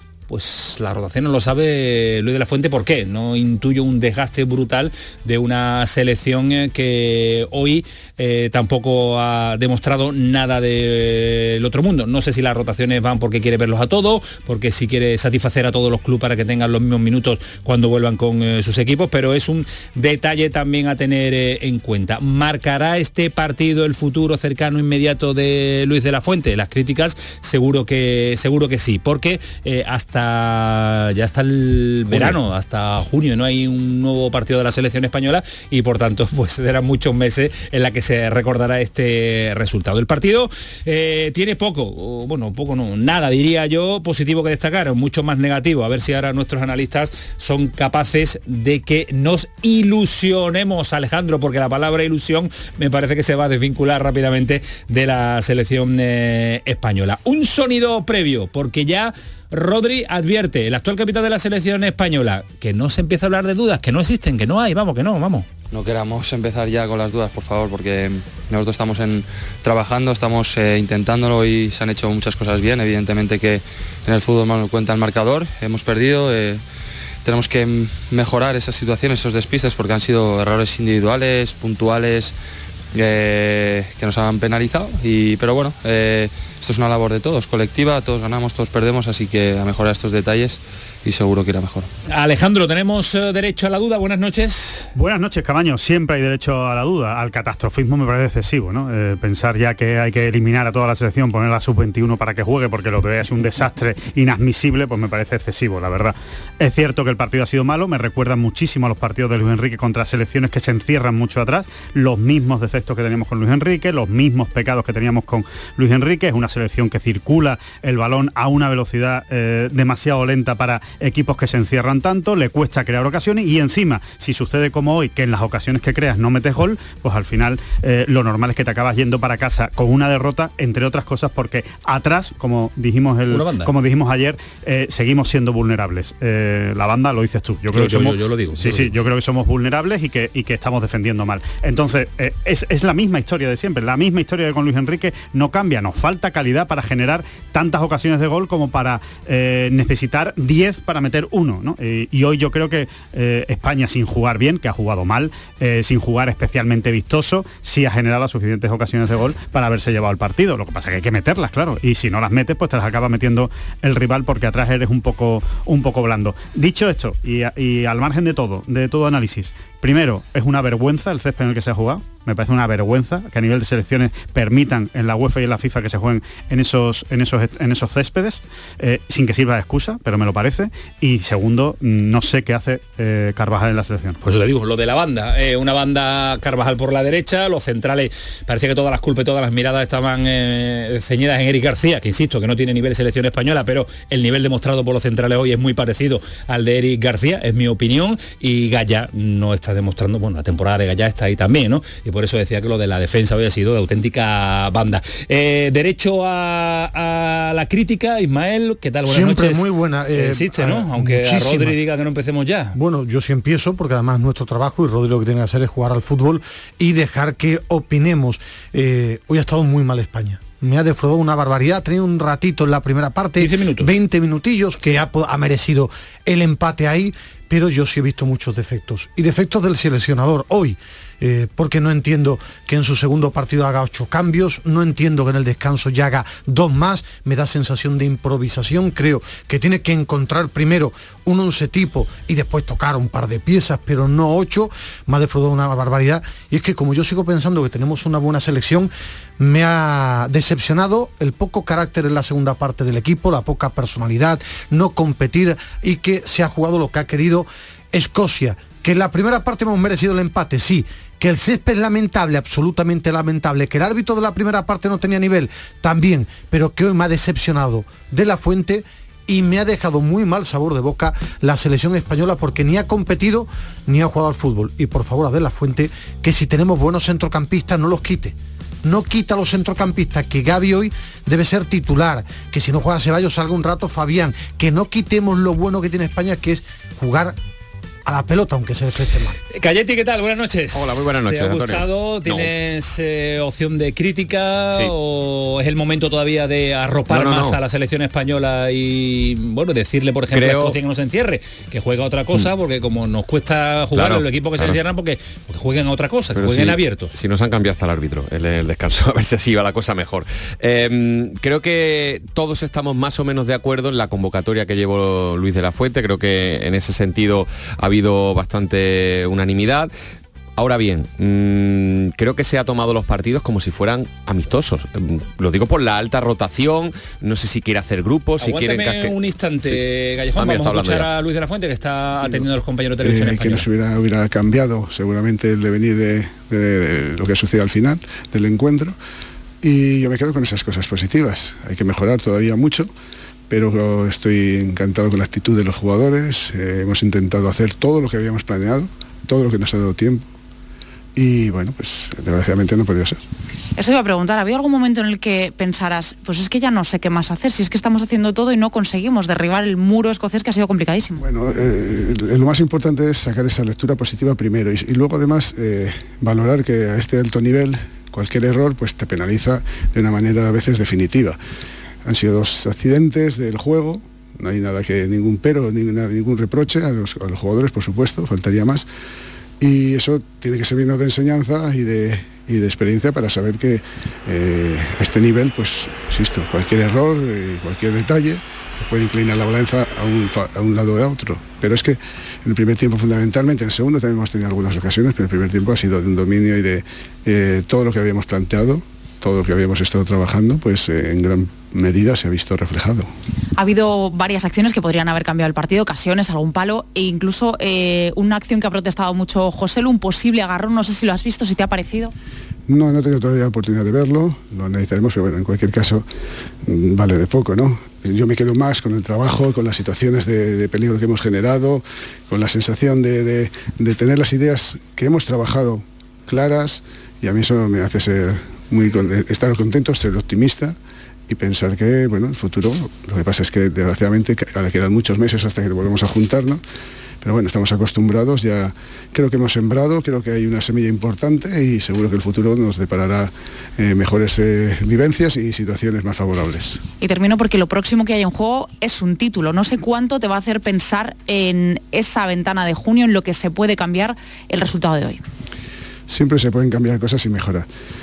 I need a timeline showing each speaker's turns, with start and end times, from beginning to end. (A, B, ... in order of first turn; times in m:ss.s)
0:00.3-1:05.5 A
0:32.1-0:32.4 B
1:05.7-1:16.6 C
1:17.2-1:22.4 C
1:22.9-1:31.9 C
1:32.1-1:34.9 A
1:34.9-3:04.2 D
2:13.3-2:13.7 A
2:17.7-2:19.0 A
3:04.2-3:32.8 A
3:29.0-3:31.8 E
3:32.7-4:47.4 E
3:43.4-3:43.9 A
4:48.0-4:49.4 E
4:49.5-5:07.1 A
4:50.7-4:52.5 B
4:57.1-4:57.6 B
5:00.3-5:00.8 B
5:03.9-5:04.8 B
5:06.3-5:19.9 B
5:20.6-5:29.8 B
5:28.4-5:33.7 A
5:30.4-5:31.1 B
5:33.0-5:39.0 F
5:39.6-5:42.9 F
5:43.5-5:50.2 F
5:51.1-5:53.2 F
5:53.8-6:01.2 G
6:01.2-6:11.4 F
6:12.0-6:18.8 F
6:19.6-6:43.1 F
6:43.6-6:52.1 G
6:52.7-6:56.0 F
6:56.6-7:16.6 F
7:17.2-7:26.8 F
7:27.0-7:35.2 G
7:36.1-7:37.7 F